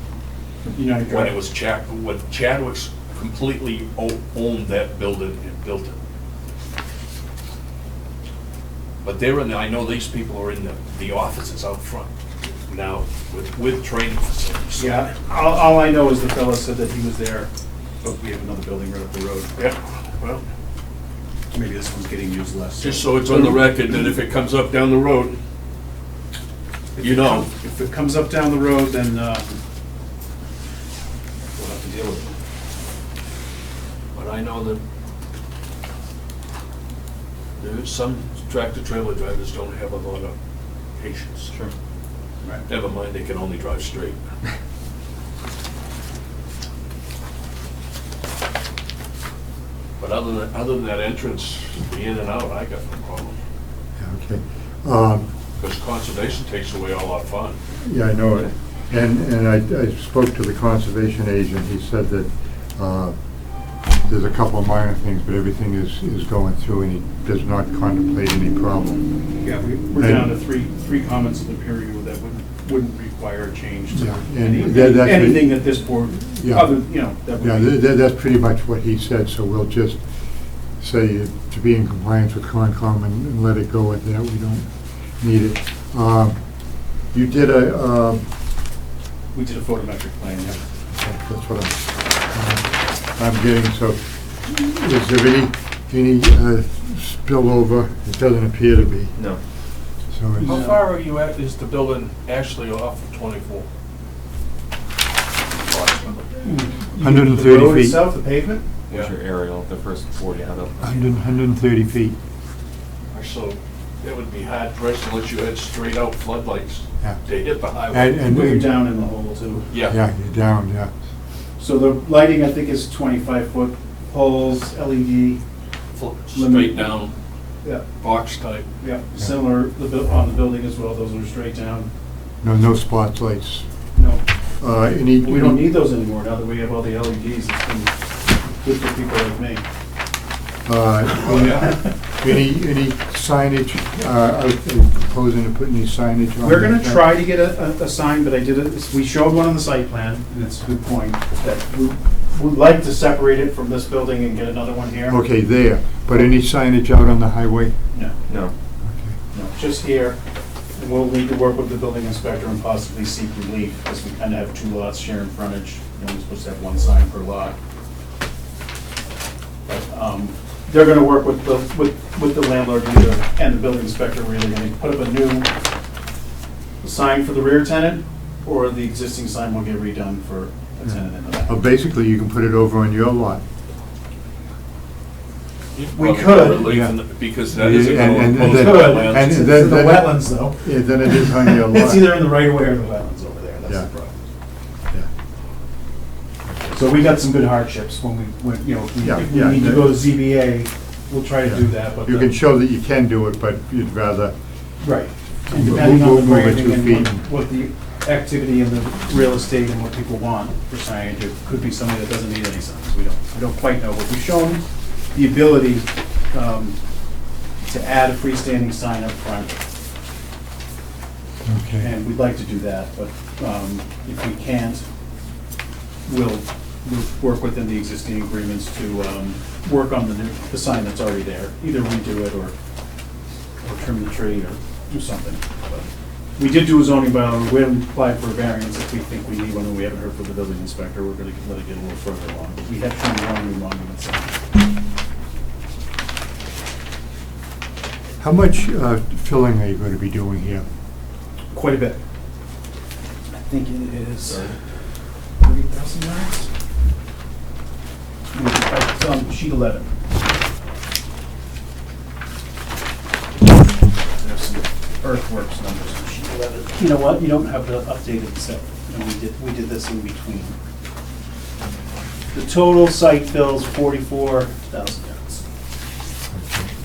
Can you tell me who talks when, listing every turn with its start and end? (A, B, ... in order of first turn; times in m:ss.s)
0:00.7-0:01.4 A
0:01.1-0:06.0 B
0:09.0-0:12.1 B
0:12.6-0:15.1 B
0:14.8-0:17.5 A
0:18.0-0:19.5 A
0:19.6-0:20.4 B
0:21.5-0:23.8 A
0:22.8-0:25.4 B
0:27.0-0:29.6 A
0:27.0-0:27.5 B
0:31.6-0:32.3 A
0:34.1-0:34.8 B
0:37.6-0:40.3 B
0:41.0-0:41.5 B
0:41.5-0:41.7 C
0:42.7-0:44.2 B
0:50.0-0:53.4 B
0:54.0-0:55.3 D
0:55.6-0:57.6 B
0:57.8-1:03.1 D
1:04.0-1:09.1 D
1:09.4-1:17.8 A
1:10.0-1:10.3 D
1:13.9-1:20.0 D
1:20.8-1:24.7 D
1:25.2-1:26.4 D
1:27.1-1:28.2 D
1:29.3-1:30.6 A
1:30.9-1:39.1 D
1:39.1-1:39.4 C
1:40.1-1:40.6 D
1:40.4-1:43.7 B
1:40.4-1:40.8 A
1:45.6-1:46.3 B
1:46.4-1:48.6 A
1:47.0-1:48.1 D
1:48.9-1:51.0 C
1:50.8-1:52.2 D
1:53.1-1:58.2 B
1:57.9-1:58.8 D
1:58.2-1:59.7 A
1:59.7-2:00.0 B
1:59.8-2:00.9 D
2:01.6-2:05.4 A
2:05.9-2:07.1 B
2:06.3-2:06.9 A
2:08.0-2:08.7 B
2:08.8-2:11.9 A
2:12.4-2:13.6 D
2:14.0-2:14.2 A
2:14.6-2:15.7 D
2:15.2-2:17.9 A
2:18.6-2:19.6 A
2:20.6-2:27.1 D
2:21.2-2:21.7 B
2:26.4-2:35.2 A
2:35.1-2:37.8 D
2:38.3-2:38.5 C
2:38.8-2:39.2 D
2:39.3-2:40.2 A
2:40.7-2:47.6 A
2:49.6-2:55.5 A
2:56.8-3:01.5 A
3:01.4-3:03.4 D
3:05.7-3:09.4 B
3:05.9-3:06.8 A
3:06.5-3:12.3 D
3:08.4-3:14.2 A
3:16.7-3:22.3 A
3:19.0-3:20.0 D
3:21.4-3:24.3 D
3:24.8-3:34.6 A
3:25.5-3:27.2 D
3:35.1-3:36.8 A
3:37.6-3:39.6 A
3:41.4-3:41.9 D
3:41.8-3:44.8 A
3:46.1-3:52.5 A
3:53.6-4:04.3 A
4:08.2-4:10.7 D
4:11.5-4:12.0 A
4:13.3-4:14.6 A
4:15.4-4:16.5 A
4:18.3-4:19.9 A
4:24.1-4:30.6 A
4:32.3-4:35.4 A
4:36.3-4:36.7 D